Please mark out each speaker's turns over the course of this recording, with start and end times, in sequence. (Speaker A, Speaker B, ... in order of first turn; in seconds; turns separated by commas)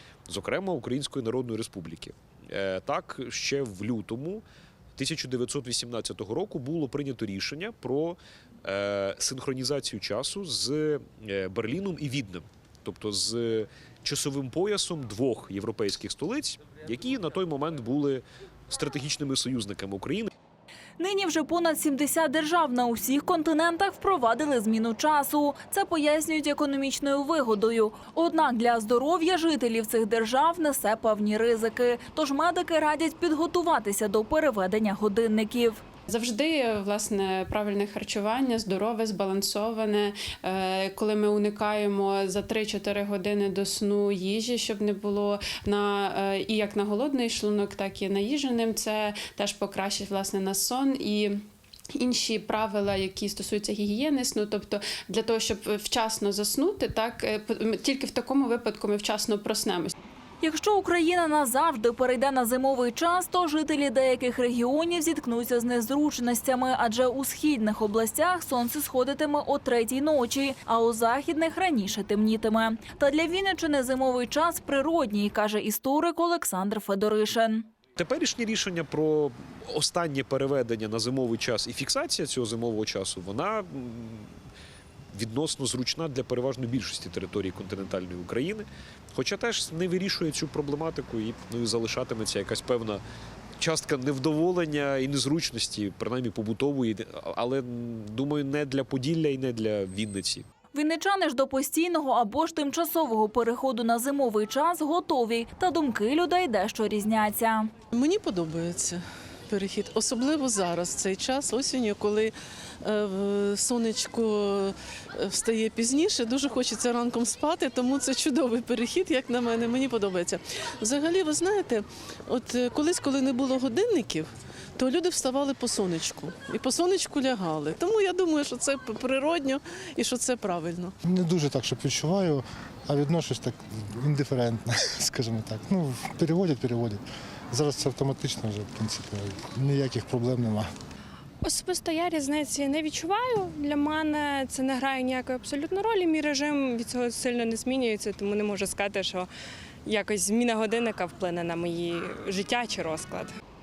Speaker A: 0.3-4.4, Speaker A: 5.0-20.3, Speaker B: 21.0-35.8, Speaker C: 36.1-51.5, Speaker C: 52.0-59.9, Speaker B: 60.4-77.7, Speaker A: 78.0-84.3, Speaker A: 85.1-93.0, Speaker A: 93.6-100.5, Speaker B: 100.7-107.7, Speaker D: 107.9-130.9, Speaker E: 131.0-140.7, Speaker F: 141.4-149.3, Speaker F: 149.9-153.3